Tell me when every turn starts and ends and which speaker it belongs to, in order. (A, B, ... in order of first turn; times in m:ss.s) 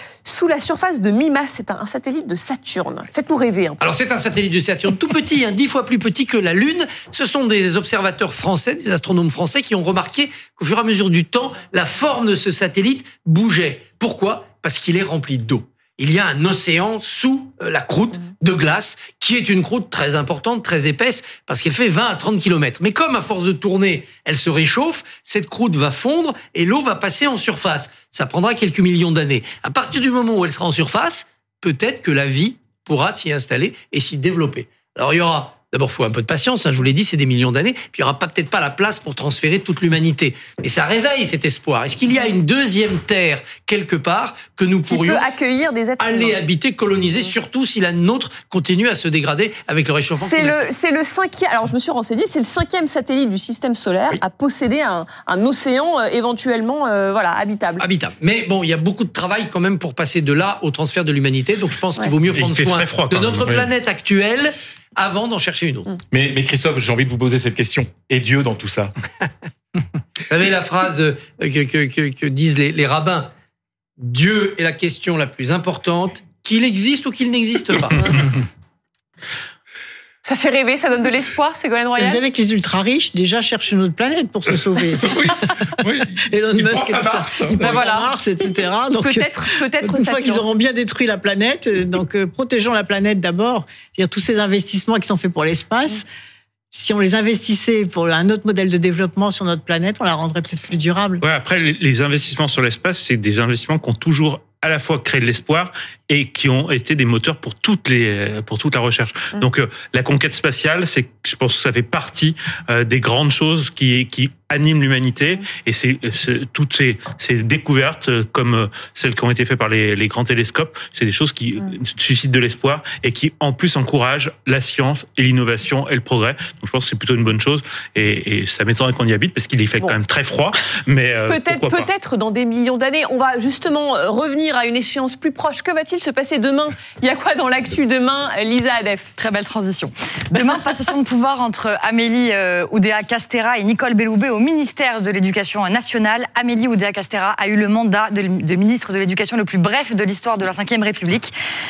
0:00.2-0:03.8 A
0:03.8-0:45.2 B
0:44.9-0:46.4 A
0:46.0-0:50.6 B
0:50.1-0:57.8 A
0:57.8-1:06.0 B
1:02.3-1:03.7 C
1:06.1-1:08.9 D
1:10.3-1:13.3 B
1:14.0-1:18.2 B
1:20.2-1:22.2 A
1:22.0-1:25.7 E
1:25.0-1:27.8 D
1:26.3-1:36.0 E
1:27.5-1:28.1 A
1:29.0-1:30.4 A
1:36.7-1:41.2 E
1:41.2-2:11.9 C
2:11.2-2:19.1 A
2:19.2-2:31.3 F